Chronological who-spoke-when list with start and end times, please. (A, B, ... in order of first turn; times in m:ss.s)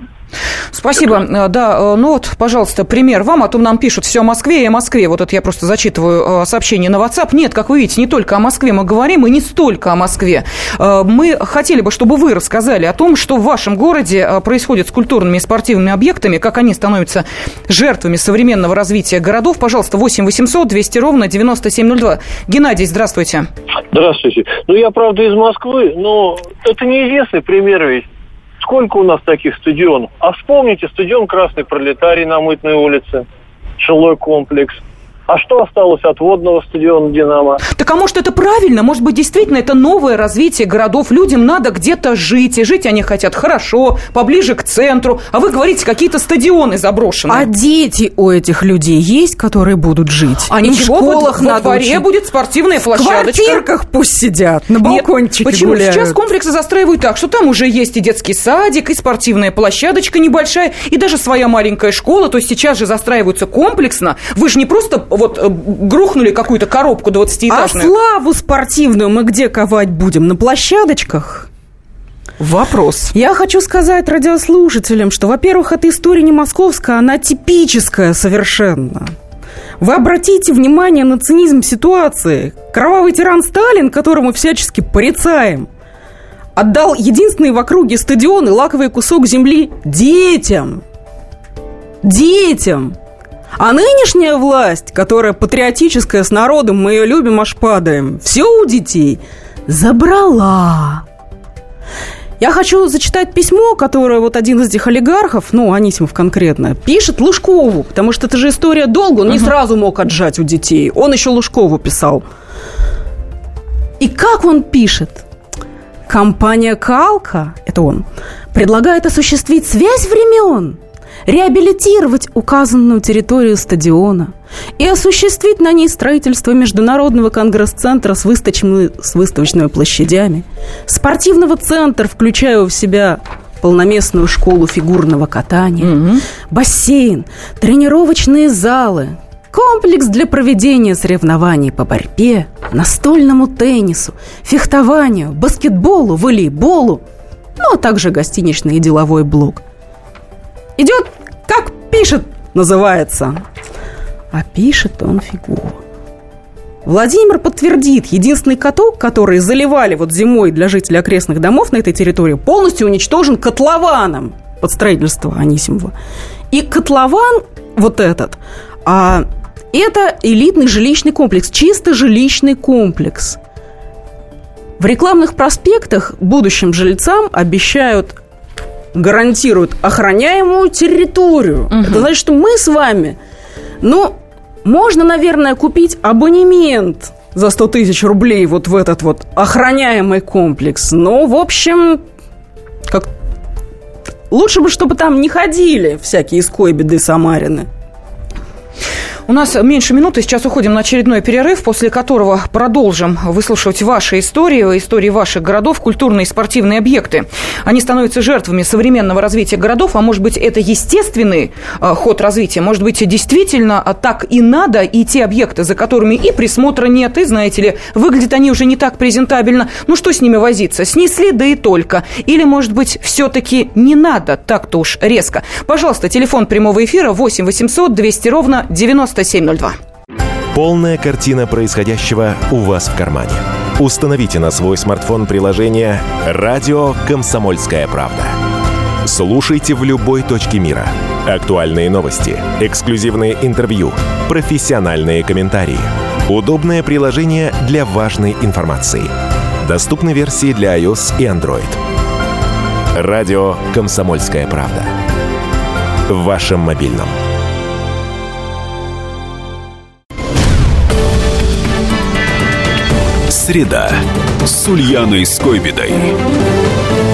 0:00.7-0:23.5 A
0:23.9-0:28.1 B
0:28.6-0:33.3 B
0:33.8-0:37.6 B
0:37.7-0:47.5 A
0:47.3-0:52.0 C
0:50.5-0:53.6 A
0:52.9-0:56.2 C
0:54.8-1:07.9 A
1:07.5-1:11.5 C
1:12.4-1:13.1 A
1:13.1-1:19.1 C
1:19.8-1:25.7 C
1:26.6-1:30.8 C
1:32.0-1:33.0 C
1:33.6-1:41.0 C
1:42.4-1:52.2 C
1:54.0-1:55.2 C
1:56.1-2:16.0 C
2:15.8-2:16.2 A
2:16.5-2:27.0 C
2:27.6-2:29.6 C
2:30.8-2:33.4 C
2:34.3-2:35.8 C
2:36.8-2:45.9 C
2:46.5-2:53.4 C
2:54.8-2:58.2 C
2:58.9-3:03.2 C
3:01.7-3:02.0 A
3:03.8-3:12.0 C
3:14.3-3:17.7 C
3:19.3-3:49.8 A
3:50.5-3:58.4 D
3:59.0-4:11.8 D
4:12.9-4:14.9 D
4:16.1-4:17.1 D
4:23.3-4:26.2 E